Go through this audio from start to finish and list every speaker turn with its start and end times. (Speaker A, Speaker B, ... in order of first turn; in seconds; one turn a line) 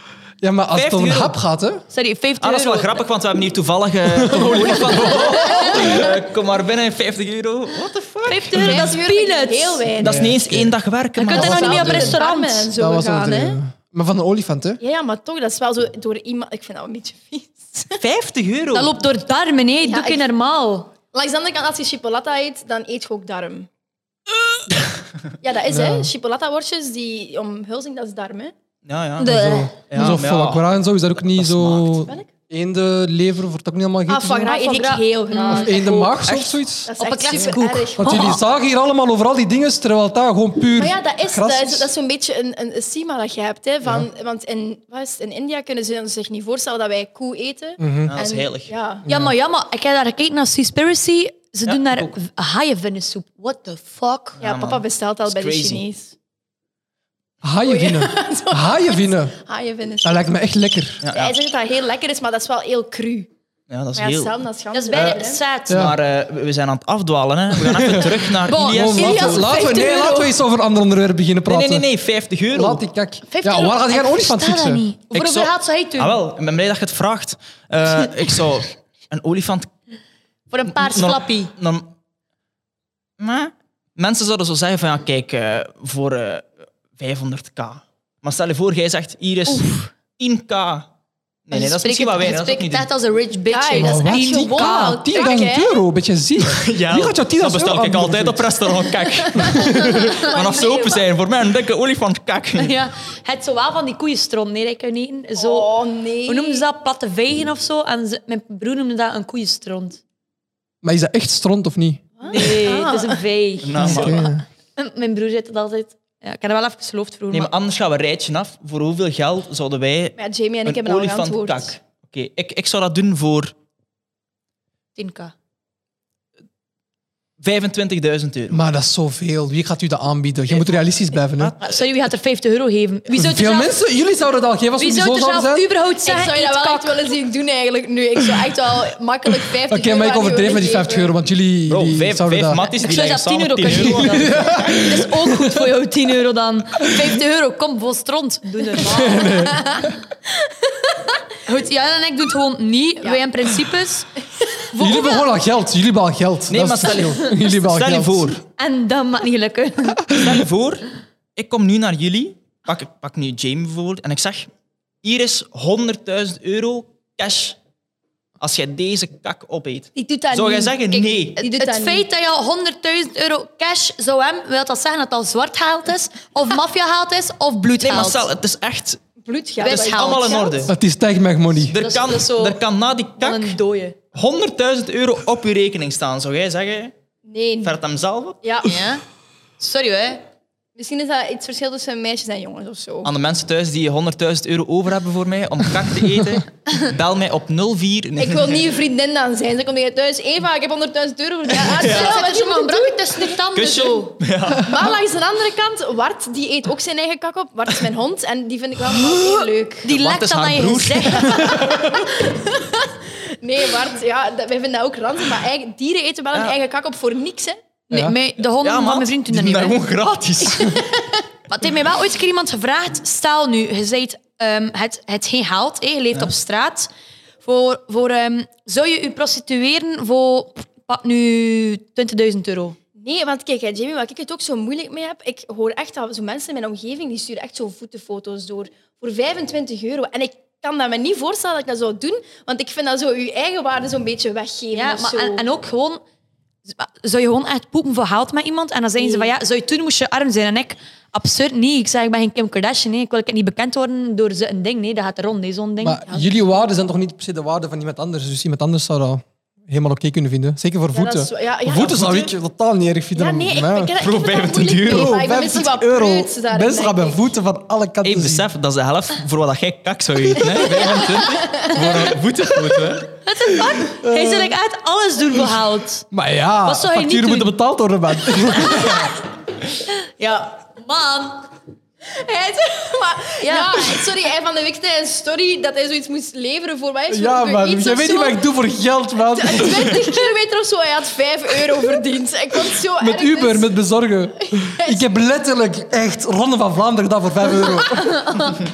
Speaker A: 0.4-1.8
Speaker B: 0.7-1.4
Speaker C: 1.9-3.0
Speaker B: 2.4-8.9
Speaker A: 4.0-6.1
Speaker D: 5.1-6.0
Speaker C: 8.3-9.8
Speaker D: 8.6-10.3
Speaker B: 10.0-11.9
Speaker A: 10.0-10.7
Speaker C: 11.2-12.7
Speaker D: 11.3-13.6
Speaker A: 11.3-12.2
Speaker A: 12.7-14.8
Speaker D: 14.8-18.0
Speaker B: 18.0-18.9
Speaker C: 18.7-20.9
Speaker D: 19.8-20.3
Speaker D: 21.1-23.7
Speaker D: 25.4-28.5
Speaker A: 25.7-26.1
Speaker B: 28.8-29.3
Speaker C: 29.2-29.8
Speaker A: 29.2-34.6
Speaker B: 29.9-32.0
Speaker D: 32.0-32.3
Speaker D: 34.1-36.3
Speaker C: 34.5-35.8
Speaker A: 35.5-36.9
Speaker B: 36.3-36.6
Speaker D: 36.8-38.4
Speaker C: 37.0-38.4
Speaker A: 38.0-41.9
Speaker D: 40.7-49.0
Speaker A: 47.8-48.1
Speaker B: 48.0-48.7
Speaker A: 49.0-49.3
Speaker C: 49.1-54.4
Speaker B: 51.6-52.1
Speaker D: 54.4-56.1
Speaker B: 54.4-55.8
Speaker A: 57.4-59.4
Speaker D: 57.6-60.3
Speaker A: 60.0-61.0
Speaker B: 61.0-61.3
Speaker D: 61.1-63.3
Speaker B: 63.7-64.4
Speaker D: 64.0-65.4
Speaker C: 64.7-65.9
Speaker B: 64.9-69.5
Speaker A: 65.7-66.0
Speaker A: 67.5-71.9
Speaker C: 68.5-70.3
Speaker D: 69.6-70.1
Speaker B: 71.5-72.8
Speaker A: 72.5-74.8
Speaker C: 73.3-76.2
Speaker B: 75.1-79.7
Speaker C: 80.5-81.5
Speaker B: 80.7-81.9
Speaker B: 83.2-90.9
Speaker C: 89.5-89.9
Speaker B: 91.5-92.9
Speaker C: 91.5-95.3
Speaker D: 93.5-95.8
Speaker A: 93.8-98.5
Speaker B: 96.4-102.8
Speaker D: 99.0-101.1
Speaker A: 99.3-100.2
Speaker C: 102.6-110.0
Speaker D: 105.4-106.7
Speaker A: 110.8-112.4
Speaker D: 112.2-113.2
Speaker C: 112.3-117.5
Speaker B: 113.6-114.3
Speaker A: 113.8-114.4
Speaker B: 117.3-123.5
Speaker D: 120.2-121.7
Speaker C: 124.9-125.3
Speaker B: 127.4-128.6
Speaker A: 128.5-131.5
Speaker B: 131.4-131.8
Speaker C: 131.6-133.8
Speaker A: 133.1-135.7
Speaker C: 134.8-137.1
Speaker D: 136.0-141.2
Speaker A: 139.7-142.7
Speaker B: 141.7-144.7
Speaker C: 142.8-149.5
Speaker A: 143.7-145.7
Speaker A: 148.8-149.9
Speaker C: 151.4-154.1
Speaker C: 154.7-155.3
Speaker A: 154.8-158.3
Speaker B: 156.5-158.4
Speaker C: 158.6-160.2
Speaker B: 160.1-164.5
Speaker B: 165.0-167.6
Speaker B: 168.4-171.4
Speaker D: 169.9-172.0
Speaker C: 171.4-178.3
Speaker B: 177.8-179.0
Speaker D: 179.2-180.7
Speaker B: 179.6-180.7
Speaker C: 179.6-180.3
Speaker A: 180.7-181.8
Speaker B: 181.6-183.6
Speaker C: 181.8-182.6
Speaker C: 183.1-184.0
Speaker B: 184.1-186.9
Speaker D: 187.2-187.8
Speaker B: 187.6-188.4
Speaker D: 188.4-188.7
Speaker C: 188.6-189.0
Speaker C: 189.6-190.2
Speaker D: 190.8-193.1
Speaker B: 193.0-198.6
Speaker D: 198.2-203.3
Speaker C: 201.5-204.2
Speaker B: 201.7-202.2
Speaker B: 203.5-204.8
Speaker D: 204.6-209.9
Speaker C: 209.8-211.6
Speaker B: 209.8-212.0
Speaker D: 211.1-217.6
Speaker A: 217.9-218.2
Speaker C: 217.9-219.8
Speaker B: 218.6-220.9
Speaker D: 220.6-221.1
Speaker C: 221.5-226.9
Speaker C: 227.4-232.8
Speaker D: 233.0-245.5
Speaker C: 244.7-246.0
Speaker C: 246.7-256.0
Speaker D: 249.0-249.3
Speaker A: 255.8-264.0
Speaker D: 256.1-256.4
Speaker D: 260.9-262.0
Speaker B: 261.8-262.3
Speaker D: 263.1-267.2
Speaker B: 264.0-265.2
Speaker A: 264.8-268.5
Speaker B: 268.0-273.1
Speaker D: 270.4-272.1
Speaker C: 273.2-276.1
Speaker A: 274.0-274.5
Speaker A: 276.1-279.1
Speaker C: 276.6-277.5
Speaker C: 278.6-279.1
Speaker C: 279.8-281.5
Speaker D: 282.1-288.4
Speaker C: 283.4-284.1
Speaker A: 287.1-290.0
Speaker D: 289.3-293.7
Speaker A: 293.0-298.3
Speaker D: 294.5-295.1
Speaker C: 298.2-298.5